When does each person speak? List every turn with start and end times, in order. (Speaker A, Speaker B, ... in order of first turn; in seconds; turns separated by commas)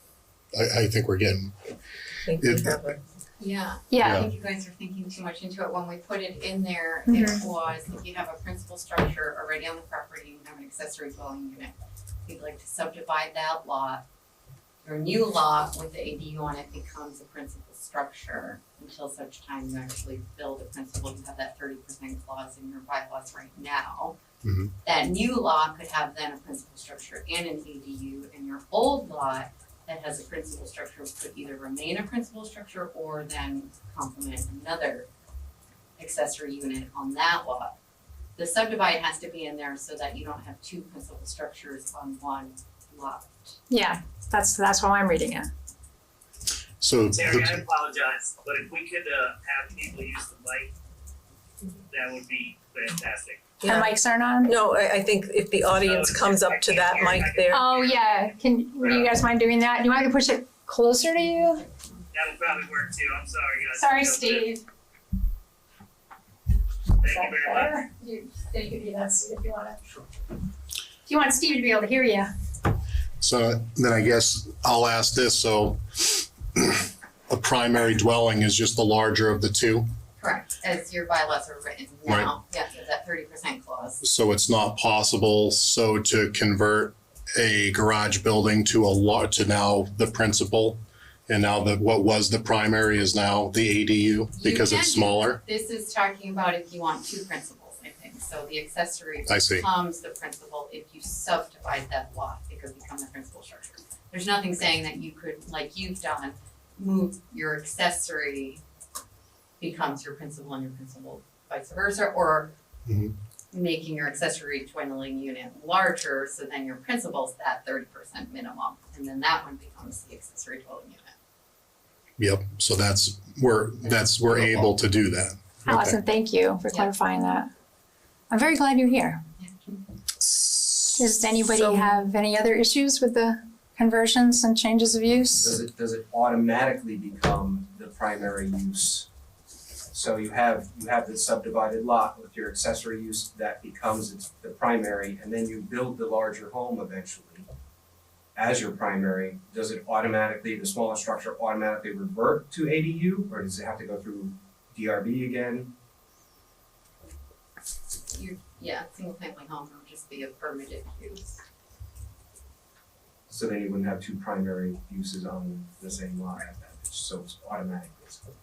Speaker A: 0.5-1.6, Speaker B: 2.3-3.0, Speaker A: 2.4-2.9, Speaker C: 3.4-11.7, Speaker D: 3.9-4.2, Speaker A: 4.0-4.3, Speaker D: 7.1-7.4, Speaker C: 12.3-14.0, Speaker C: 14.8-24.2, Speaker A: 24.4-24.7, Speaker C: 24.8-35.1, Speaker C: 36.0-37.8, Speaker C: 38.4-43.6, Speaker D: 43.7-45.5, Speaker A: 46.8-47.6, Speaker E: 47.1-50.7, Speaker E: 51.9-53.5, Speaker B: 53.6-57.6, Speaker D: 53.6-54.6, Speaker E: 55.8-58.3, Speaker D: 57.5-61.6, Speaker E: 58.8-59.1, Speaker E: 62.1-64.5, Speaker D: 63.7-64.7, Speaker E: 67.0-67.7, Speaker D: 67.0-69.8, Speaker D: 71.1-72.3, Speaker A: 73.2-79.9, Speaker C: 80.2-84.0, Speaker A: 84.0-95.4, Speaker C: 94.3-108.6, Speaker A: 99.3-99.7, Speaker C: 109.6-112.5, Speaker A: 112.9-113.1, Speaker C: 113.5-121.2, Speaker A: 122.2-126.0, Speaker C: 123.8-124.8, Speaker D: 125.7-127.5, Speaker D: 128.3-129.2, Speaker C: 129.4-129.8, Speaker D: 130.2-135.6, Speaker F: 135.4-139.1, Speaker F: 139.9-147.5, Speaker F: 148.3-155.7, Speaker C: 158.1-161.4, Speaker F: 163.3-168.3